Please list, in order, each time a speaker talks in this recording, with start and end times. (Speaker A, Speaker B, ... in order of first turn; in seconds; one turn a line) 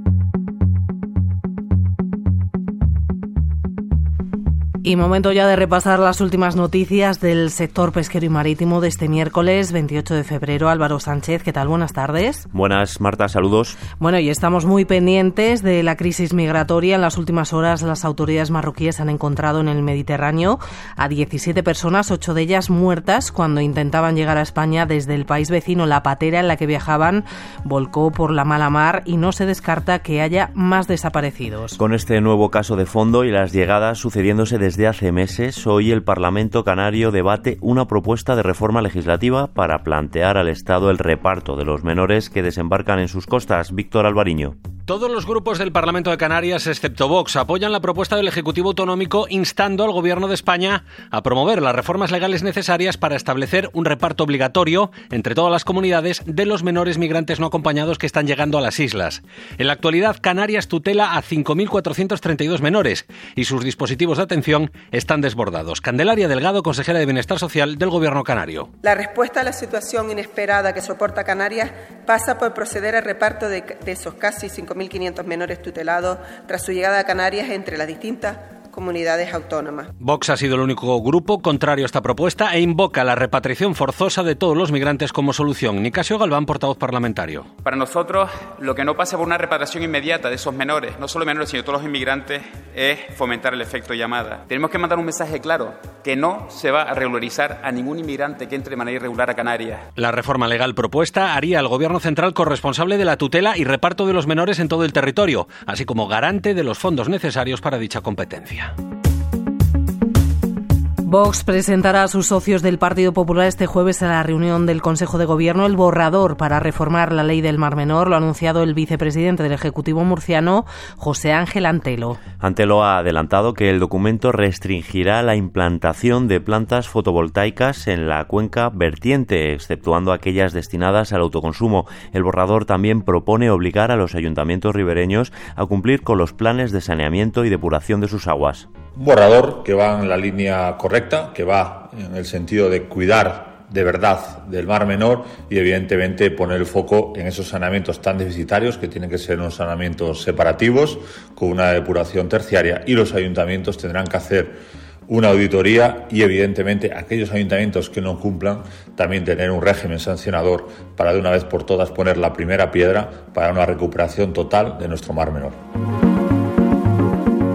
Speaker A: 4.8-12.4
Speaker B: 12.5-13.8
Speaker A: 13.9-31.8
Speaker B: 31.8-44.5
Speaker C: 44.9-68.7
Speaker D: 68.8-79.9
Speaker C: 80.0-87.5
Speaker E: 87.6-99.9
Speaker C: 99.9-108.7
Speaker A: 111.0-122.2
Speaker B: 122.4-138.7
Speaker F: 138.9-165.6